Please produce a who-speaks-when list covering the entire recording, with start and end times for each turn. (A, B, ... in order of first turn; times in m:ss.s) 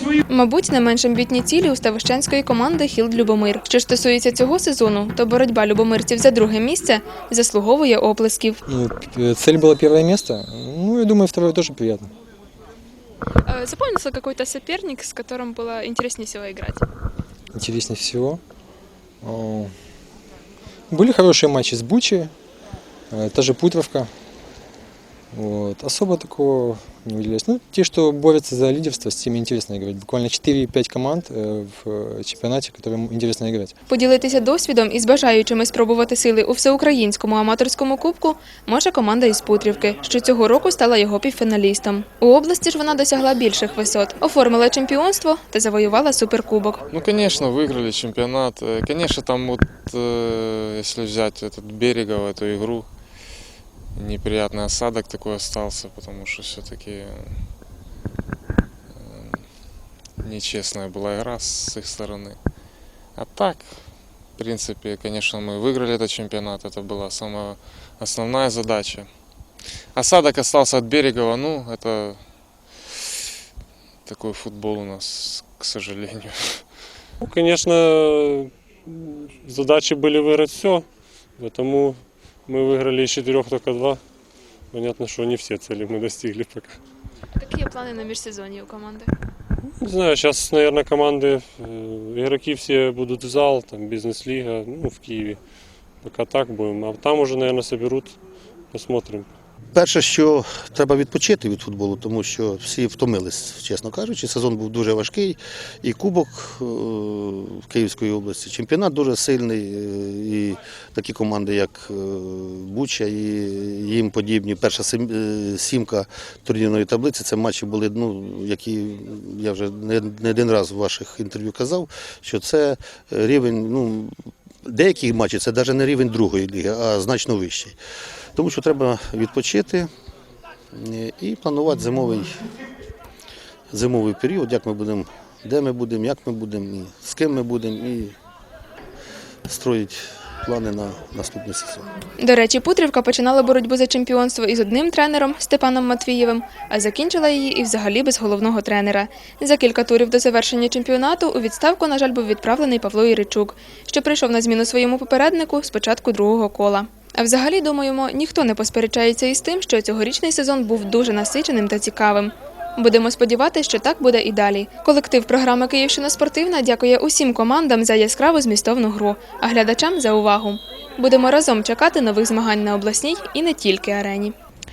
0:00.3-0:08.6 A
0:08.7-0:12.1 B
0:13.5-0:16.9 A
0:17.5-0:18.4 B
0:19.2-0:19.7 B
0:20.9-0:22.3 B
0:23.1-0:24.1 B
0:25.3-0:33.7 B
0:33.9-0:46.8 A
0:46.9-0:53.2 C
0:53.9-0:57.5 C
0:58.9-1:12.9 C
1:14.0-1:17.0 C
1:17.2-1:24.0 D
1:24.7-1:26.8 D
1:27.4-1:29.1 A
1:29.8-1:38.2 D
1:38.7-1:39.3 D
1:39.7-2:04.1 E
2:04.6-2:07.7 E
2:08.4-2:09.9 E
2:10.7-2:12.3 E
2:13.7-2:18.1 E
2:19.5-2:21.8 E
2:22.2-2:54.4 A